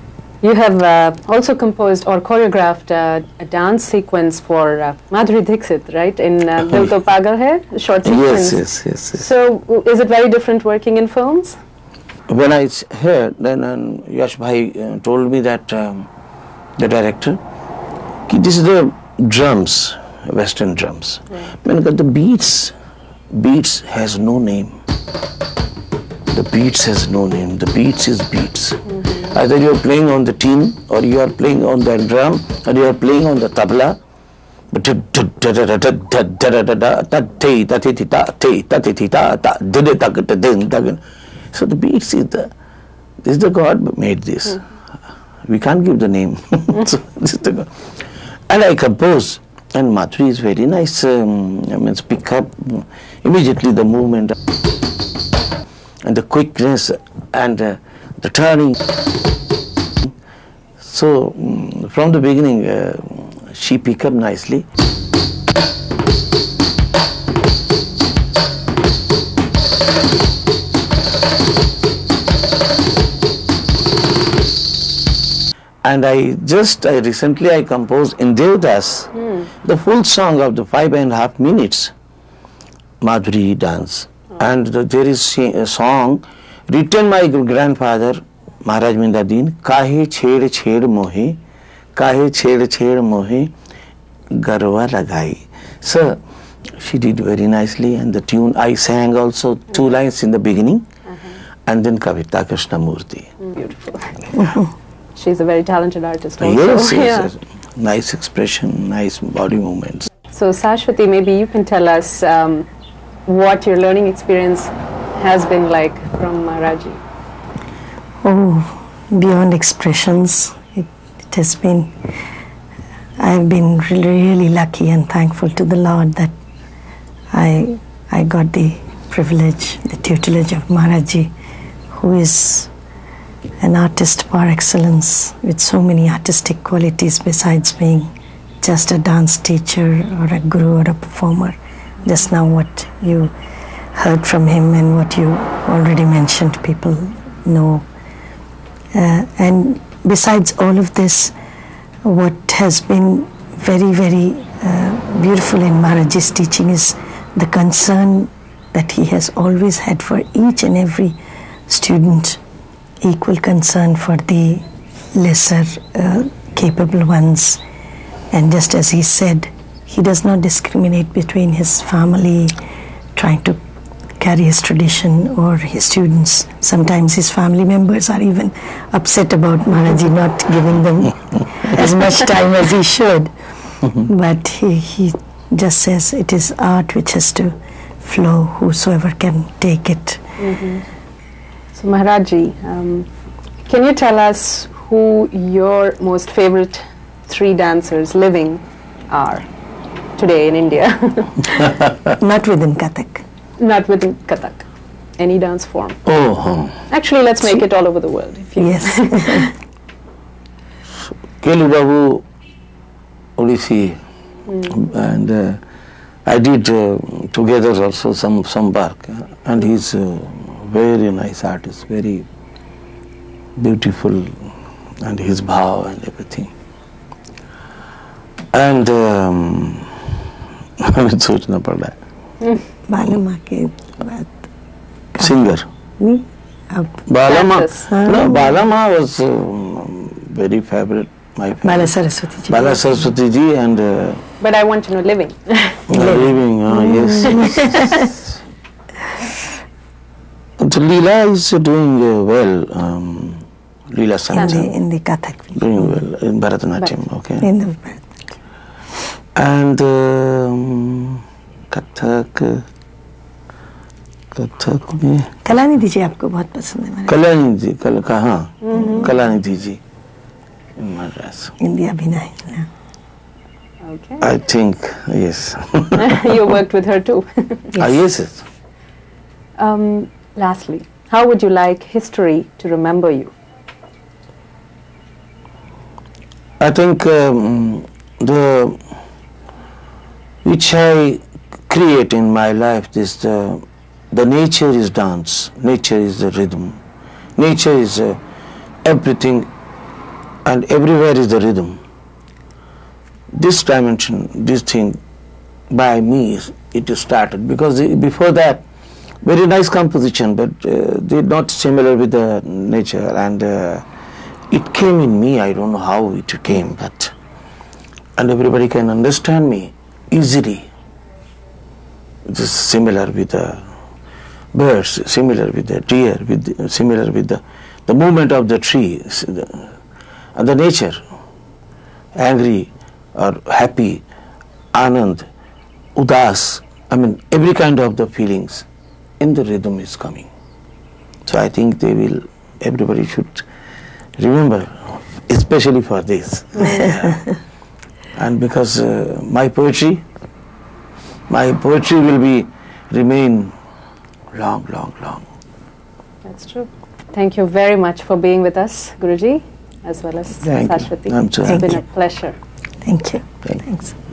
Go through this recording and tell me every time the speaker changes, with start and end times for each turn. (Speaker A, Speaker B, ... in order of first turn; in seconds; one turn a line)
Speaker A: 0.4-8.6
Speaker B: 8.0-9.2
Speaker A: 9.1-11.6
Speaker B: 12.3-16.1
Speaker B: 16.8-17.4
Speaker B: 18.3-22.7
Speaker B: 23.3-24.8
Speaker B: 26.3-34.0
Speaker A: 29.0-29.3
Speaker B: 34.7-41.0
Speaker B: 41.5-42.5
Speaker B: 43.2-44.6
Speaker B: 45.5-47.7
Speaker B: 48.5-54.3
Speaker B: 56.0-58.8
Speaker B: 60.8-64.6
Speaker B: 75.8-79.1
Speaker B: 79.6-81.9
Speaker B: 83.0-91.4
Speaker B: 92.0-93.5
Speaker B: 94.3-96.2
Speaker B: 96.8-100.8
Speaker B: 101.7-103.3
Speaker A: 103.4-104.2
Speaker A: 105.1-107.3
Speaker B: 106.4-110.1
Speaker A: 110.3-112.7
Speaker A: 113.2-117.0
Speaker C: 118.2-121.9
Speaker C: 123.2-126.3
Speaker C: 127.3-131.3
Speaker C: 131.9-132.7
Speaker C: 133.6-138.1
Speaker C: 138.6-143.3
Speaker C: 143.9-147.8
Speaker C: 148.9-151.3
Speaker C: 152.0-162.4
Speaker C: 163.0-164.6
Speaker C: 165.2-167.6
Speaker C: 168.3-172.6
Speaker C: 173.2-173.6
Speaker C: 174.2-183.3
Speaker C: 183.9-190.2
Speaker A: 190.4-190.8
Speaker A: 191.7-193.1
Speaker A: 193.7-199.5
Speaker A: 200.2-201.8
Speaker C: 202.2-203.2
Speaker A: 203.6-204.7
Speaker A: 205.2-206.0
Speaker B: 206.1-206.8
Speaker A: 206.9-209.5
Speaker C: 208.6-209.5
Speaker B: 211.4-212.2
Speaker B: 213.4-214.0
Speaker B: 214.7-215.6
Speaker B: 216.2-222.2
Speaker B: 223.6-224.3
Speaker B: 225.0-226.5
Speaker B: 228.5-229.9
Speaker B: 230.8-231.9
Speaker C: 232.9-234.3
Speaker B: 235.2-235.7
Speaker C: 236.0-237.0
Speaker B: 237.1-241.9
Speaker A: 237.2-237.9
Speaker C: 237.8-238.6
Speaker C: 241.6-243.0
Speaker B: 242.5-244.2
Speaker A: 244.4-245.8
Speaker B: 245.9-248.0
Speaker C: 245.9-248.0
Speaker B: 250.6-254.7
Speaker A: 254.3-254.7
Speaker C: 254.3-255.8
Speaker B: 255.5-257.5
Speaker C: 257.4-258.3
Speaker B: 259.4-261.2
Speaker B: 261.7-262.6
Speaker B: 264.3-265.3
Speaker C: 265.4-267.2
Speaker B: 267.1-269.8
Speaker A: 268.6-269.1
Speaker B: 270.8-271.5
Speaker C: 271.6-272.7
Speaker A: 273.8-274.3
Speaker B: 274.2-276.3
Speaker A: 276.0-277.8
Speaker B: 277.8-278.4
Speaker A: 279.6-283.3
Speaker B: 286.6-288.8
Speaker B: 290.4-296.8
Speaker B: 297.4-298.2
Speaker B: 298.8-299.5
Speaker B: 300.4-301.8
Speaker B: 303.3-305.0
Speaker B: 305.7-308.6
Speaker B: 309.2-313.8
Speaker B: 314.5-317.1
Speaker B: 318.2-320.7
Speaker B: 322.3-323.6
Speaker B: 324.5-329.7
Speaker B: 330.4-331.0
Speaker B: 332.1-334.0
Speaker B: 334.7-335.3
Speaker B: 335.9-338.6
Speaker B: 339.2-340.3
Speaker B: 341.2-343.4
Speaker B: 344.2-347.3
Speaker B: 348.1-350.0
Speaker B: 351.3-353.5
Speaker B: 354.3-355.3
Speaker A: 356.2-362.4
Speaker B: 360.4-361.8
Speaker C: 361.5-361.8
Speaker C: 362.8-363.9